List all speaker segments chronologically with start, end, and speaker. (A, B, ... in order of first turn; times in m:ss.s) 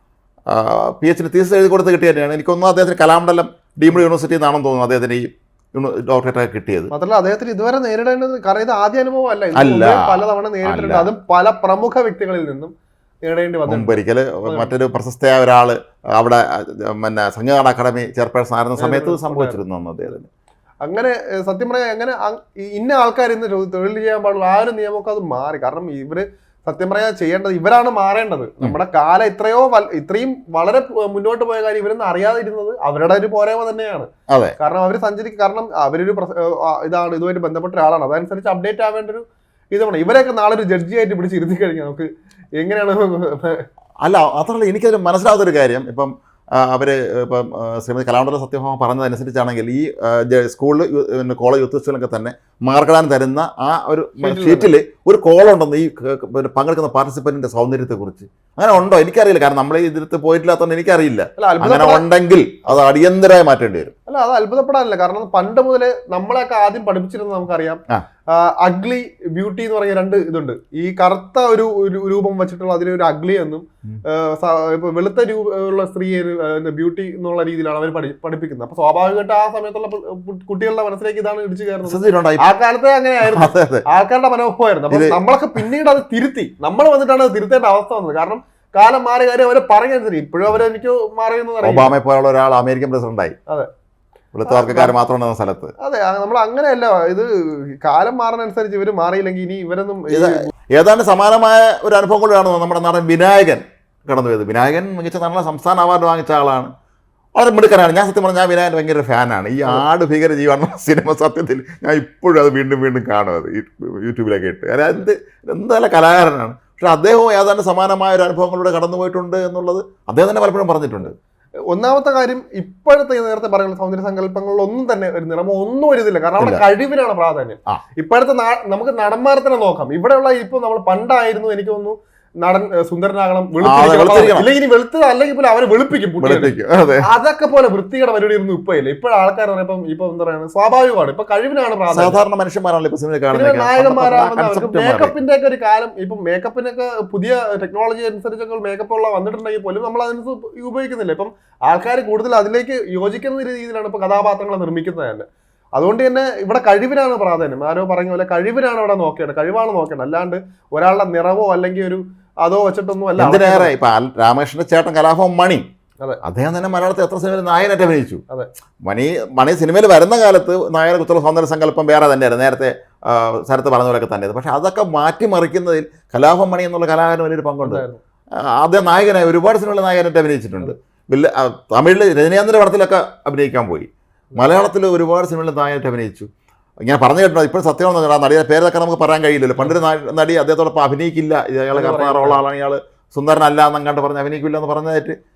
0:00.5-0:06.9 A
0:06.9-0:12.7 B
0:09.6-0:11.1 A
0:13.2-0:14.7 B
0:13.7-0:20.3 A
0:18.8-0:19.6 B
0:20.8-0:43.7 B
0:34.3-0:34.6 A
0:44.0-1:03.9 A
0:54.2-0:54.7 B
1:01.4-1:02.0 B
1:04.1-1:31.9 B
1:21.8-1:22.5 A
1:23.2-1:23.8 A
1:24.9-1:25.2 A
1:31.6-1:33.4 A
1:34.3-1:35.7 A
1:34.5-1:35.0 B
1:35.8-1:40.5 B
1:40.1-1:46.7 A
1:47.4-2:01.1 A
2:01.7-2:22.2 B
2:13.6-2:14.5 A
2:16.2-2:17.0 A
2:21.9-2:25.2 A
2:23.3-2:43.7 B
2:43.2-2:45.7 A
2:46.2-2:48.2 A
2:48.8-2:57.8 A
2:57.6-2:58.0 B
2:58.4-3:06.3 A
3:06.8-3:15.2 A
3:11.7-3:12.4 B